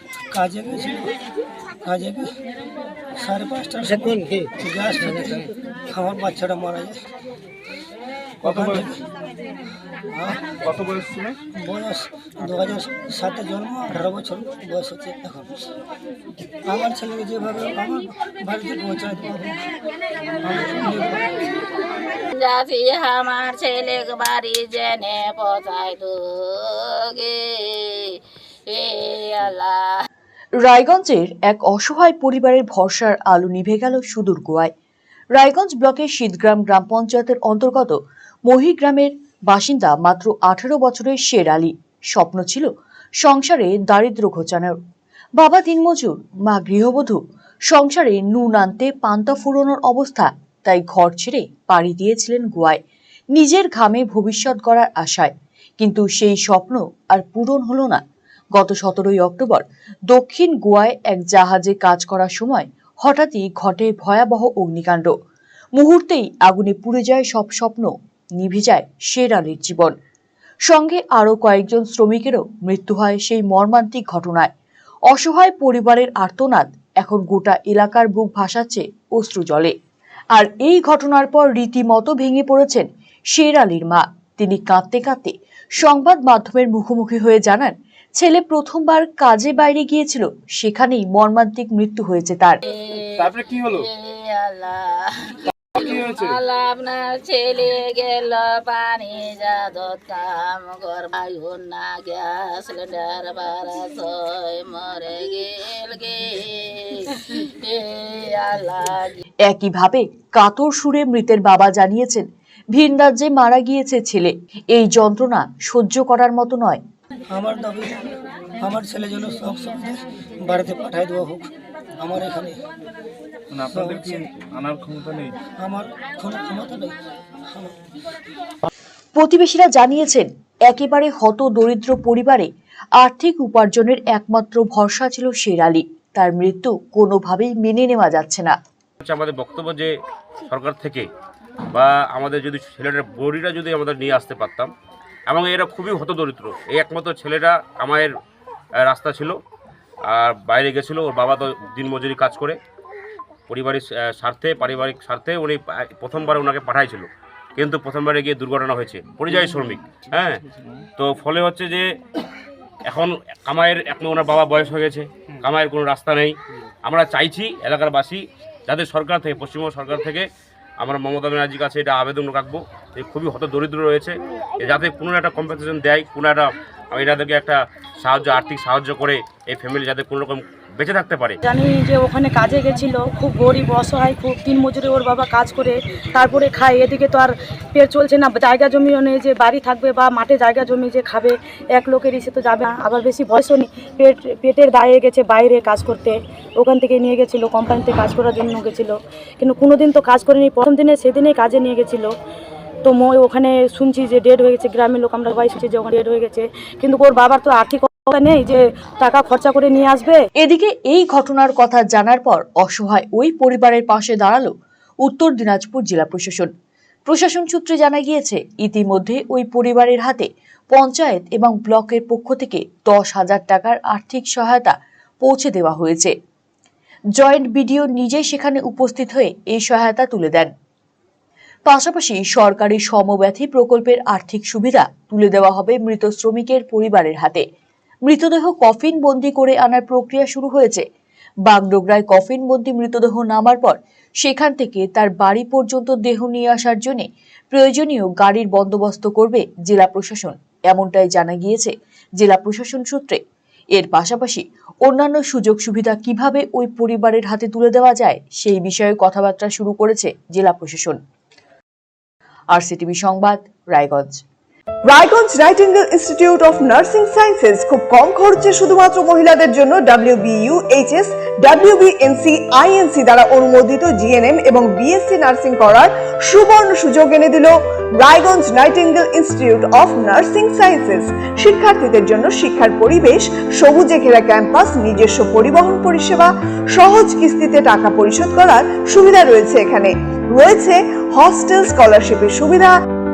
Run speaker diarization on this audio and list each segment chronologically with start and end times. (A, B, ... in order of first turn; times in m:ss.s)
0:00.3-0:01.1 A
0:01.8-0:02.4 A
0:03.2-0:07.1 A
0:08.4-0:08.8 B
0:08.4-0:09.0 A
0:10.1-0:10.5 A
0:10.6-0:11.4 B
0:11.5-0:15.6 A
0:16.6-0:19.6 A
0:20.4-0:21.2 A
0:22.4-0:26.1 C
0:27.1-0:27.4 C
0:28.7-0:30.0 C
0:30.6-0:34.7 D
0:35.3-0:42.7 D
0:43.2-0:44.8 D
0:45.4-0:52.8 D
0:53.3-0:58.0 D
0:58.6-1:05.1 D
1:05.8-1:09.9 D
1:10.7-1:14.5 D
1:15.1-1:19.7 D
1:20.3-1:32.6 D
1:32.7-1:35.0 C
1:33.2-1:33.9 B
1:35.8-1:47.0 C
1:35.8-1:36.4 B
1:47.6-1:49.2 C
1:49.5-1:56.8 D
1:57.3-1:58.0 A
1:58.6-2:02.6 A
2:03.5-2:05.3 B
2:03.6-2:04.3 A
2:05.5-2:07.0 A
2:07.5-2:07.7 A
2:09.2-2:18.6 D
2:19.0-2:19.9 E
2:20.5-2:21.1 E
2:21.7-2:24.7 E
2:25.3-2:28.1 E
2:28.8-2:29.4 E
2:30.1-2:32.6 E
2:33.5-2:40.4 E
2:41.0-2:41.8 E
2:42.9-2:46.3 E
2:46.8-2:50.2 E
2:50.8-3:01.4 E
3:01.4-3:22.1 F
3:22.8-3:30.2 F
3:30.4-3:34.5 D
3:35.0-3:36.5 D
3:37.1-3:46.1 D
3:47.2-3:50.5 D
3:51.6-3:57.4 D
3:58.0-4:00.8 D
4:01.5-4:13.2 D
4:13.7-4:21.0 D
4:22.5-4:24.2 D
4:24.8-4:52.7 G